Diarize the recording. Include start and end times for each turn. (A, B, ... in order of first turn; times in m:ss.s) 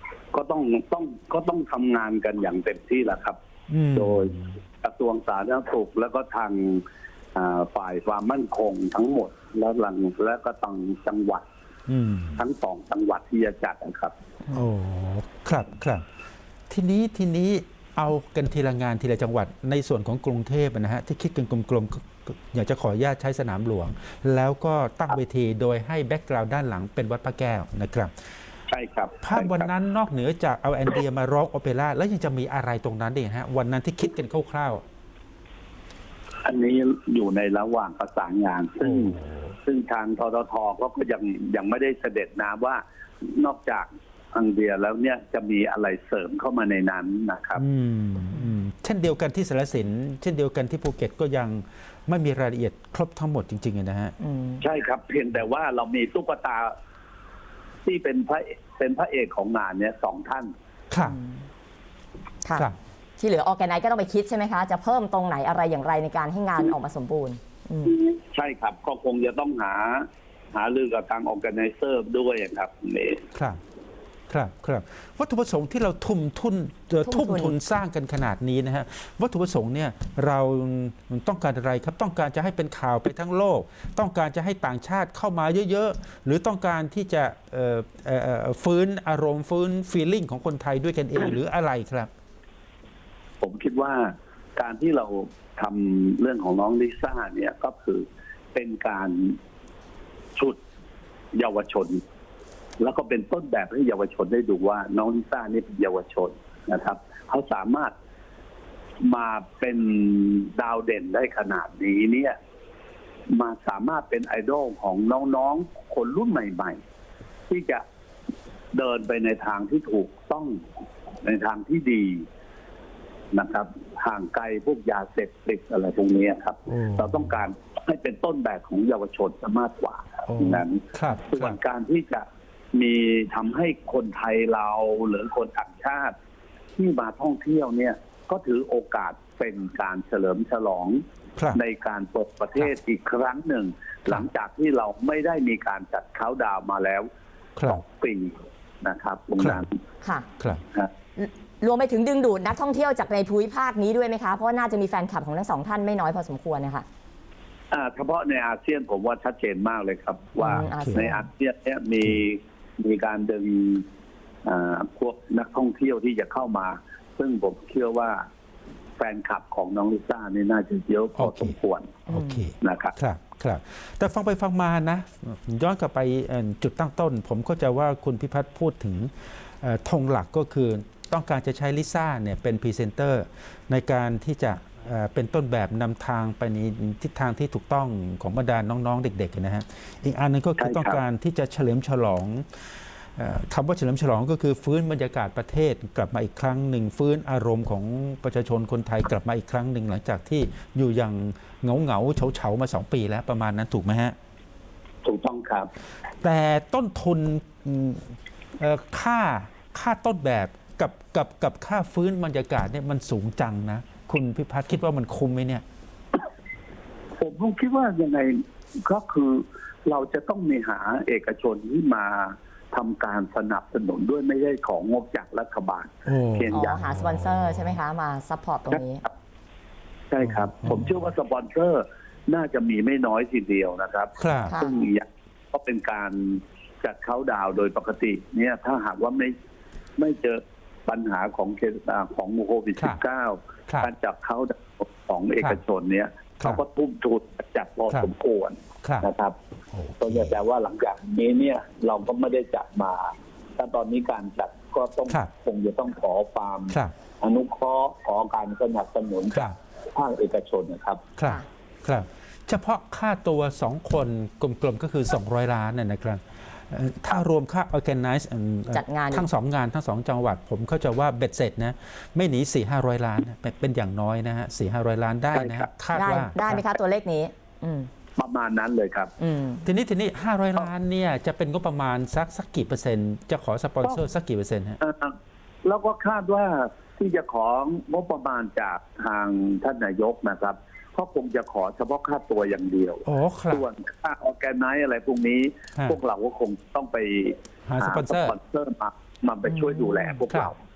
0:00.3-0:03.4 A
0:03.7-0:04.5 B
0:03.9-0:06.8 A
0:07.3-0:11.4 A
0:11.9-0:12.4 B
0:12.4-0:14.1 A
0:14.5-0:16.0 B
0:16.7-0:28.1 B
0:28.7-0:29.7 A
0:29.2-0:34.8 B
0:36.4-0:47.6 A
0:38.8-0:39.5 B
0:47.6-0:54.1 B
0:54.2-0:54.6 C
0:54.6-0:56.7 A
0:57.8-1:00.5 A
1:00.9-1:01.2 B
1:01.0-1:01.4 C
1:03.2-1:08.0 C
1:08.1-1:13.2 A
1:13.3-1:13.6 B
1:14.3-1:32.1 B
1:17.0-1:17.5 C
1:33.4-1:39.4 A
1:41.3-1:42.0 A
1:42.8-1:47.9 A
1:49.0-1:52.4 A
1:53.3-1:56.8 A
1:57.5-1:57.8 A
1:58.7-2:00.6 A
2:01.2-2:02.2 A
2:03.3-2:16.1 A
2:06.7-2:07.3 B
2:10.3-2:11.6 B
2:16.8-2:21.0 A
2:21.5-2:27.1 A
2:27.6-2:27.8 B
2:27.7-2:29.7 A
2:29.4-2:29.6 B
2:30.0-2:30.3 C
2:31.2-2:36.8 C
2:37.7-2:43.8 A
2:40.4-2:41.2 C
2:40.4-2:41.1 B
2:44.4-2:48.2 A
2:49.0-2:52.0 A
2:51.2-2:51.6 B
2:52.1-2:52.4 C
2:52.1-3:24.1 B
2:52.6-2:52.9 A
3:10.6-3:11.0 A
3:25.0-3:25.7 A
3:26.2-3:35.6 B
3:37.2-3:46.8 A
3:46.1-3:47.7 B
3:46.5-3:49.0 C
3:50.1-3:59.3 A
3:50.2-3:51.0 B
3:54.2-3:54.6 B
3:54.5-3:54.8 C
4:00.0-4:09.3 A
4:08.8-4:09.1 B
4:09.7-4:10.4 B
4:10.0-4:21.0 A
4:21.2-4:36.6 B
4:28.7-4:29.3 C
4:35.3-4:35.7 A
4:35.9-4:37.9 C
4:38.2-4:39.1 A
4:39.2-4:39.6 C
4:39.6-4:44.8 B
4:44.8-5:00.6 A
4:53.0-4:53.6 B
4:57.7-4:58.4 B
4:59.4-5:00.2 C